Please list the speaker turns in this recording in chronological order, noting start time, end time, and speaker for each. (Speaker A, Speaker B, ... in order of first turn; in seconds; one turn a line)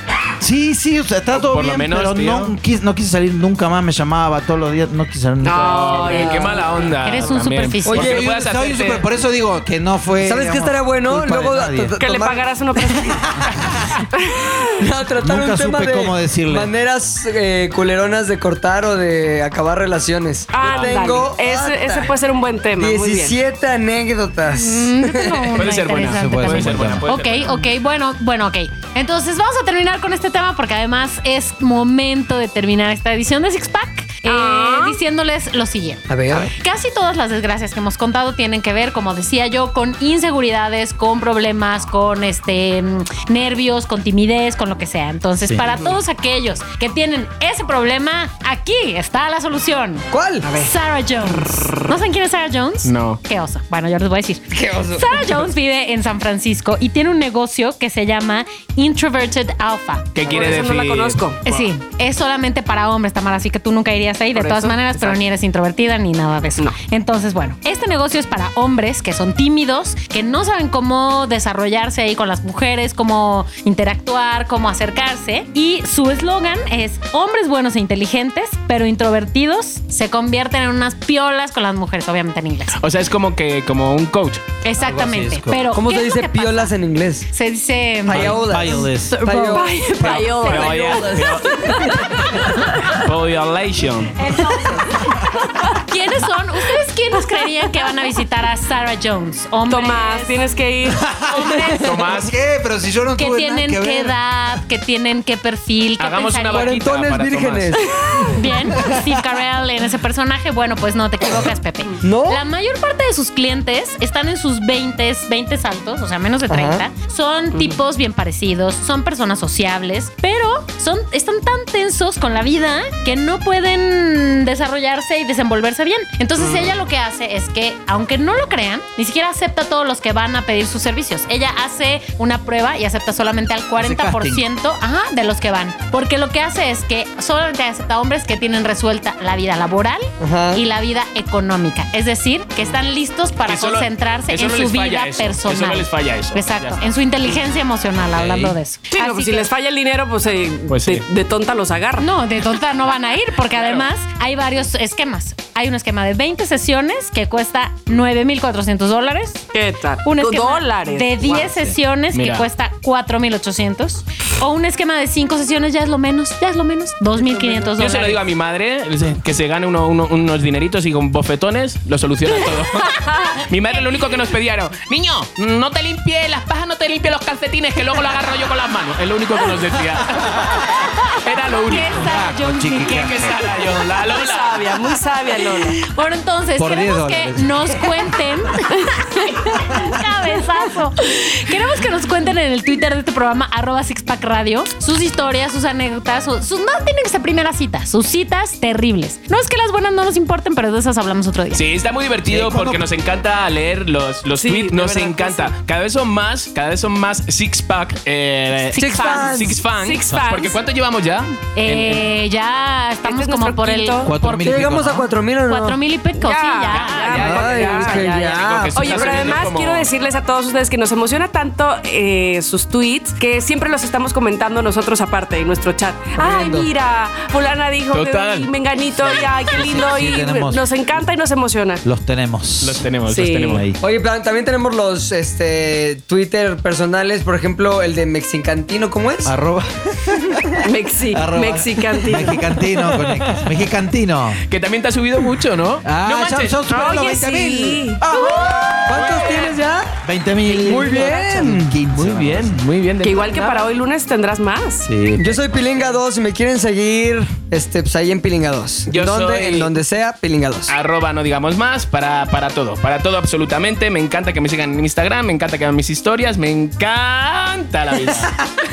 Speaker A: 0.4-5.9
Speaker B: 1.3-2.5
Speaker C: 5.4-6.9
Speaker B: 5.5-9.1
Speaker D: 6.1-6.6
Speaker E: 7.0-8.2
Speaker D: 7.8-8.3
Speaker A: 8.0-11.9
Speaker D: 10.2-13.1
Speaker C: 12.0-13.3
Speaker A: 13.4-14.0
Speaker C: 14.1-14.7
Speaker D: 14.8-22.1
Speaker A: 15.2-16.7
Speaker C: 20.5-23.4
Speaker B: 20.6-21.0
Speaker D: 22.8-25.6
Speaker E: 24.5-60.1
Speaker B: 25.6-27.6
Speaker A: 25.9-27.1
Speaker C: 34.2-35.0
Speaker D: 36.1-36.5
Speaker C: 45.6-45.9
Speaker D: 50.1-50.5
Speaker C: 50.4-50.7
Speaker B: 52.8-53.2
Speaker D: 54.5-55.1
Speaker B: 60.1-61.7
Speaker C: 60.2-61.4
Speaker D: 60.3-60.6
Speaker E: 61.4-82.8
Speaker C: 64.3-65.2
Speaker D: 64.4-65.2
Speaker B: 82.8-84.5
Speaker E: 84.6-86.7
Speaker A: 84.8-85.7
Speaker D: 85.7-87.3
Speaker E: 87.3-89.6
Speaker D: 88.0-90.1
Speaker A: 88.1-89.2
Speaker C: 89.1-93.0
Speaker B: 90.0-92.3
Speaker D: 90.7-91.0
Speaker B: 92.8-94.2
Speaker E: 94.2-100.4
Speaker C: 95.4-95.8
Speaker C: 97.2-97.7
Speaker C: 99.7-101.1
Speaker A: 100.9-104.6
Speaker E: 101.3-102.1
Speaker B: 101.8-102.3
Speaker E: 103.2-106.8
Speaker B: 106.0-107.9
Speaker D: 106.5-108.2
Speaker C: 108.0-108.5
Speaker E: 108.2-149.5
Speaker A: 108.8-109.1
Speaker D: 112.0-112.4
Speaker D: 116.5-116.8
Speaker A: 133.8-134.4
Speaker D: 140.2-140.6
Speaker B: 143.4-146.8
Speaker A: 148.1-148.6
Speaker C: 148.9-152.1
Speaker B: 150.7-151.0
Speaker E: 152.0-159.4
Speaker B: 153.6-153.9
Speaker C: 159.5-161.6
Speaker E: 160.0-168.2
Speaker B: 162.1-162.5
Speaker C: 167.2-167.8
Speaker B: 167.8-182.1
Speaker C: 173.0-173.4
Speaker E: 173.0-174.1
Speaker E: 181.1-183.5
Speaker A: 181.9-183.4
Speaker B: 182.8-184.7
Speaker C: 184.0-185.8
Speaker E: 185.6-201.6
Speaker A: 186.6-187.8
Speaker B: 201.5-212.1
Speaker A: 202.2-202.9
Speaker C: 204.4-205.5
Speaker D: 208.7-209.6
Speaker E: 208.7-209.3
Speaker C: 209.6-210.6
Speaker E: 211.6-217.3
Speaker C: 213.0-214.1
Speaker A: 214.0-215.1
Speaker D: 214.4-215.8
Speaker C: 216.1-231.8
Speaker B: 216.7-219.9
Speaker D: 217.2-219.5
Speaker D: 226.2-226.7
Speaker B: 227.9-229.6
Speaker A: 229.5-231.0
Speaker A: 231.8-232.8
Speaker B: 232.6-233.7
Speaker C: 233.1-233.6
Speaker A: 233.5-233.8
Speaker D: 233.8-239.3
Speaker A: 239.2-244.4
Speaker C: 240.6-242.4
Speaker D: 242.8-243.4
Speaker B: 244.5-246.6
Speaker A: 245.8-249.2
Speaker C: 246.7-248.0
Speaker D: 248.0-251.7
Speaker B: 248.7-249.5
Speaker A: 250.0-252.6
Speaker B: 251.9-253.7
Speaker C: 253.0-254.9
Speaker A: 254.8-255.4
Speaker D: 255.2-260.7
Speaker B: 258.9-259.7
Speaker B: 260.7-268.5